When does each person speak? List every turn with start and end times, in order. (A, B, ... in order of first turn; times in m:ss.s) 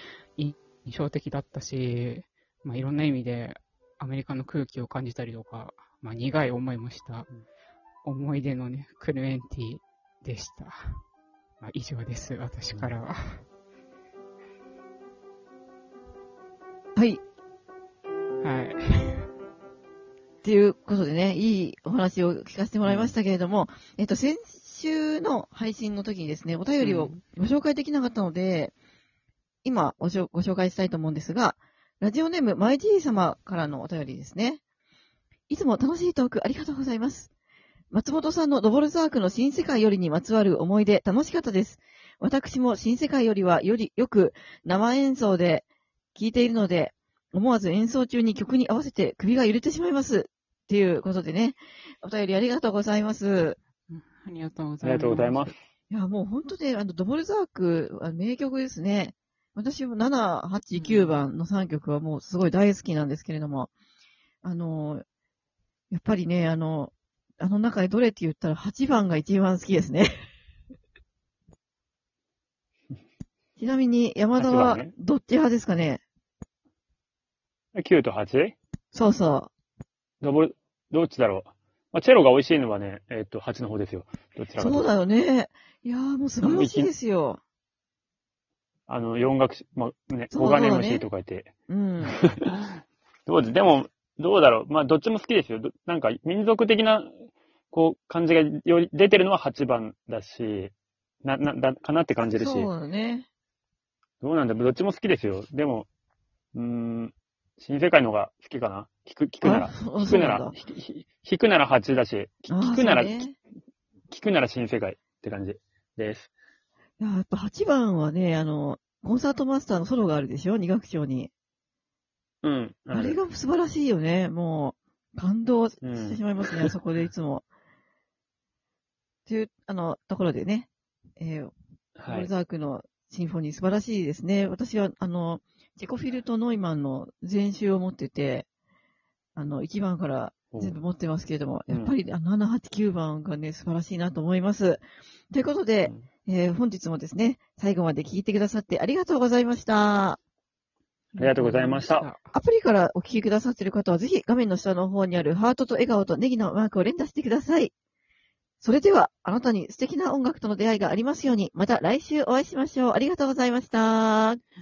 0:00.4-0:07.3 A
0:08.0-0:10.9 A
0:11.6-0:13.4 A
0:18.4-0:19.3 A
0:20.4-0:28.7 B
0:22.8-0:23.1 C
0:26.8-0:27.2 A
0:29.6-0:34.6 B
0:35.5-0:37.3 B
0:37.9-0:53.6 B
0:53.9-0:55.5 A
0:54.8-0:55.5 C
0:55.9-1:03.7 B
1:00.7-1:01.2 A
1:04.4-1:05.0 B
1:05.9-1:10.1 B
1:13.6-1:16.0 B
1:14.4-1:14.9 C
1:17.7-1:18.5 C
1:18.9-1:19.5 B
1:20.2-1:24.9 C
1:24.6-1:27.4 B
1:26.4-1:26.9 C
1:28.9-1:31.5 C
1:30.3-1:31.1 B
1:31.7-1:32.2 B
1:32.0-1:42.7 C
1:42.3-1:43.3 B
1:44.2-1:45.9 C
1:46.5-1:53.2 C
1:49.4-1:50.5 B
1:52.5-1:53.4 B
1:54.1-1:56.3 C
1:57.0-2:01.3 B
2:02.4-2:03.2 C
2:02.9-2:07.4 B
2:05.8-2:06.7 C
2:09.2-2:11.5 B
2:12.0-2:12.3 C
2:12.0-2:18.4 B
2:19.3-2:30.2 B
2:20.5-2:20.8 C
2:21.7-2:21.9 C
2:31.1-2:32.3 A
2:31.2-2:32.1 C
2:32.2-2:37.7 B
2:38.6-2:44.4 B